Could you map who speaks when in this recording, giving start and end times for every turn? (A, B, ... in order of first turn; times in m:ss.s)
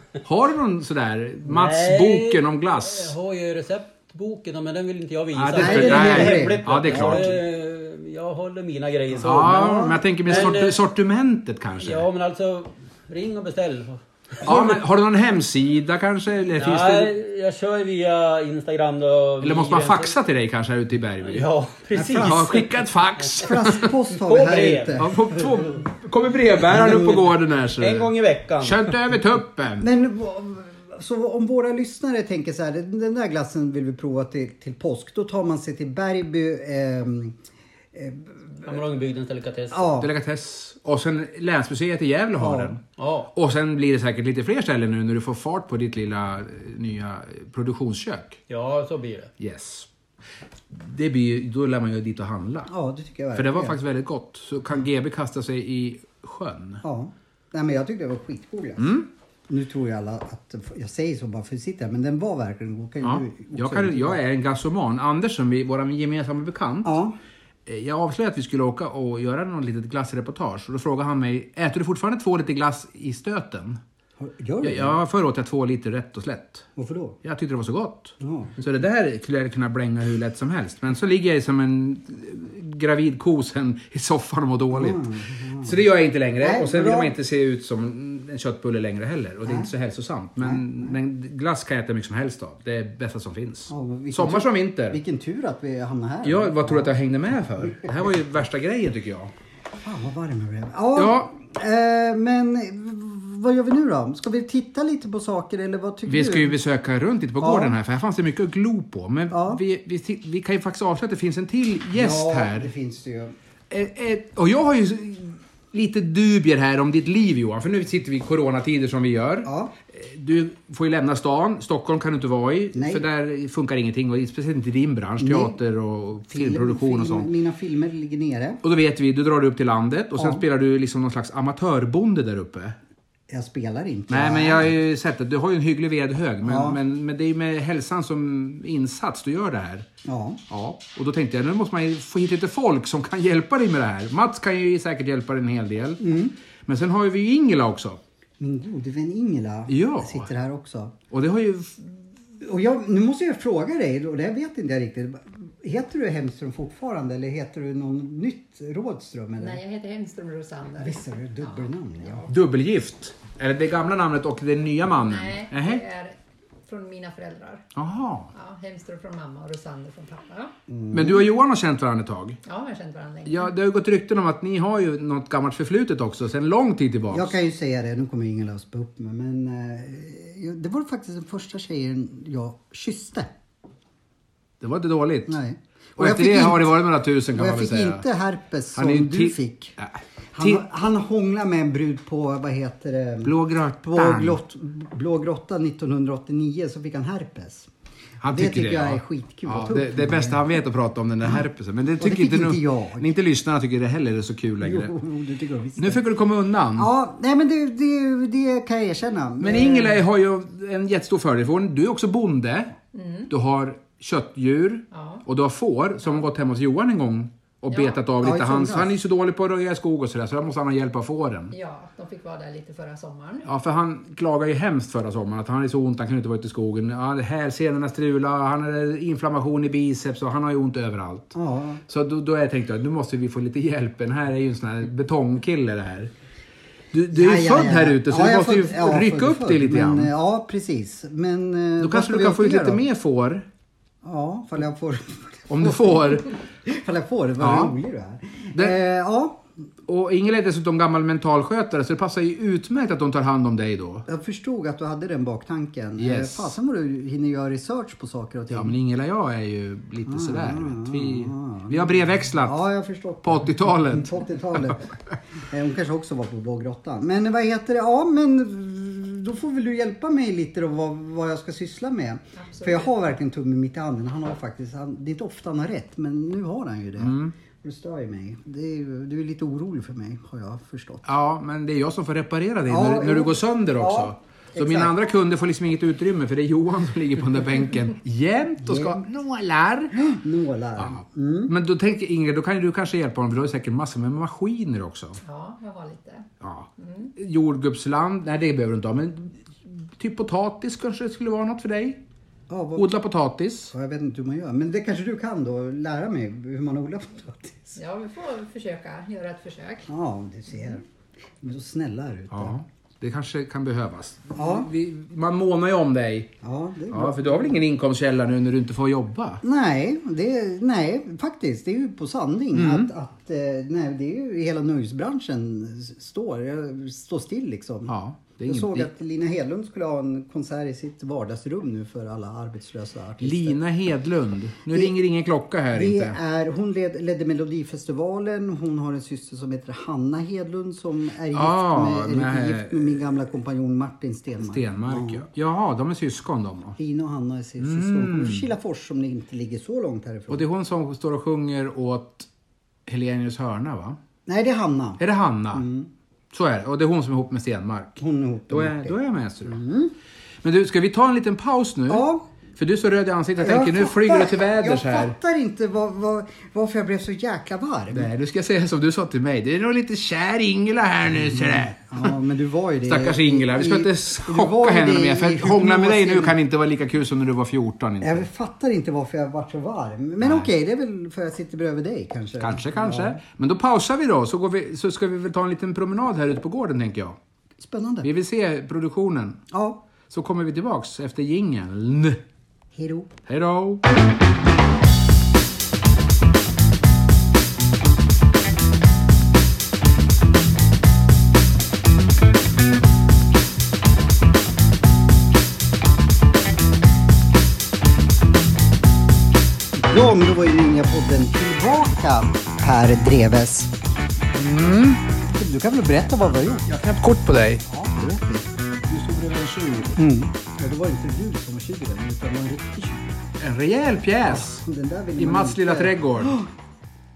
0:00.2-0:03.2 A
0:01.5-0:10.8 B
0:05.4-0:07.4 A
0:05.6-0:07.4 C
0:09.2-0:12.0 A
0:09.4-0:10.0 C
0:11.8-0:14.7 B
0:14.4-0:17.1 A
0:16.6-0:20.1 B
0:19.4-0:21.5 A
0:21.2-0:22.7 B
0:21.9-0:22.6 C
0:22.2-0:23.9 A
0:23.4-0:25.2 C
0:24.1-0:25.2 B
0:25.0-0:29.9 A
0:26.7-0:27.2 C
0:27.8-0:28.9 B
0:29.8-0:37.4 C
0:37.9-0:38.7 C
0:38.6-0:40.0 B
0:39.7-0:40.1 C
0:40.0-0:42.8 A
0:42.4-0:42.7 C
0:43.0-0:43.3 B
0:43.3-0:48.4 A
0:48.5-0:49.3 B
0:49.4-0:49.9 A
0:50.7-0:52.7 A
0:52.7-0:53.8 C
0:53.4-0:56.8 A
0:56.8-0:59.0 C
0:58.8-0:59.1 A
0:59.5-1:04.2 C
1:03.0-1:07.0 A
1:06.8-1:07.2 C
1:07.7-1:13.8 A
1:14.2-1:15.0 C
1:14.6-1:16.7 A
1:16.8-1:17.2 C
1:17.2-1:35.0 A
1:18.2-1:18.6 C
1:24.7-1:25.8 C
1:26.4-1:27.1 C
1:33.7-1:36.9 C
1:36.2-1:39.3 A
1:39.8-1:46.6 C
1:41.0-1:41.3 A
1:46.1-1:52.7 A
1:47.4-1:47.8 C
1:49.3-1:49.6 C
1:51.9-1:53.3 C
1:53.7-2:07.3 A
1:59.4-1:59.7 C
2:02.7-2:03.0 C
2:05.2-2:05.6 C
2:06.3-2:08.6 C
2:08.6-2:12.8 A
2:10.2-2:10.4 C
2:13.3-2:14.8 C
2:14.1-2:19.9 A
2:16.4-2:16.8 C
2:20.0-2:20.4 C
2:20.5-2:26.1 A
2:26.0-2:26.4 C
2:26.7-2:28.0 A
2:28.4-2:31.0 C
2:29.7-2:30.3 A
2:31.1-2:31.8 A
2:32.4-2:39.6 C
2:39.4-2:42.3 D
2:40.8-2:42.2 C
2:42.3-2:45.8 A
2:45.0-2:47.6 D
2:47.8-2:48.3 A
2:48.3-2:50.5 D
2:50.7-2:51.3 C
2:50.9-2:52.4 A
2:52.5-2:53.5 D
2:53.2-2:57.3 A
2:57.1-3:03.3 C
3:04.6-3:05.4 A
3:05.3-3:06.8 C
3:06.0-3:08.0 A
3:07.4-3:09.8 C
3:08.8-3:10.6 A
3:10.3-3:17.7 C
3:13.2-3:14.4 A
3:18.2-3:24.9 A
3:18.3-3:20.4 C
3:22.0-3:23.1 C
3:24.6-3:26.0 C
3:25.8-3:26.9 A
3:26.8-3:30.0 C
3:29.4-3:32.8 A
3:32.9-3:33.3 D
3:33.3-3:41.5 A
3:34.9-3:35.2 D
3:37.7-3:38.0 D
3:38.2-3:39.0 C
3:41.5-3:43.5 D
3:43.5-3:51.4 A
3:51.4-3:51.8 C
3:51.9-3:56.1 A
3:56.9-4:00.1 A
3:57.1-4:02.8 C
4:01.8-4:03.5 A
4:04.0-4:09.4 C
4:05.5-4:06.4 A
4:07.4-4:07.8 A
4:09.9-4:14.1 A
4:14.1-4:18.8 C
4:16.0-4:16.5 A
4:18.5-4:22.6 A
4:20.1-4:24.9 C
4:23.2-4:24.8 A
4:25.5-4:41.0 C
4:32.4-4:32.9 D
4:37.0-4:37.3 A
4:41.0-4:50.2 A
4:42.7-4:44.9 C
4:48.6-4:49.0 C
4:50.0-4:51.5 C
4:50.8-4:55.2 A
4:55.2-4:56.3 D
4:56.4-5:02.0 A
4:56.8-4:57.1 D
5:02.5-5:02.9 C
5:02.8-5:03.7 A
5:03.7-5:07.8 C
5:07.8-5:09.9 D
5:09.9-5:10.8 C
5:11.4-5:12.5 C
5:12.3-5:16.3 A
5:14.4-5:14.7 C
5:16.4-5:17.6 C
5:16.9-5:19.4 A
5:19.4-5:27.9 C
5:22.5-5:22.9 A
5:27.9-5:28.9 A
5:28.4-5:33.6 C
5:33.2-5:36.2 A
5:35.7-5:45.3 C
5:41.3-5:43.0 A
5:44.4-5:46.8 A
5:46.8-5:50.4 C
5:47.6-5:48.5 A
5:50.3-5:52.3 A
5:52.9-5:54.0 A
5:54.3-5:55.0 C
5:55.0-5:55.6 A
5:55.5-5:55.9 C
5:56.3-5:59.6 A
5:58.0-5:59.9 C
6:00.4-6:05.2 A
6:01.9-6:02.2 C
6:03.4-6:08.1 C
6:07.9-6:12.1 A
6:11.2-6:16.4 C
6:12.9-6:18.3 A
6:18.0-6:23.2 C
6:20.2-6:20.5 A
6:22.4-6:27.2 A
6:27.6-6:28.1 C
6:28.0-6:29.4 A
6:29.5-6:29.8 C
6:30.1-6:32.2 A
6:32.8-6:33.1 C
6:33.3-6:33.8 A
6:49.8-6:53.7 C
6:54.3-6:55.0 A
6:55.2-6:56.8 C
6:56.7-6:57.6 A
6:57.6-6:58.5 C
6:58.9-7:00.0 A
7:00.0-7:03.2 C
7:03.4-7:04.6 A
7:04.2-7:06.5 C
7:05.2-7:06.4 A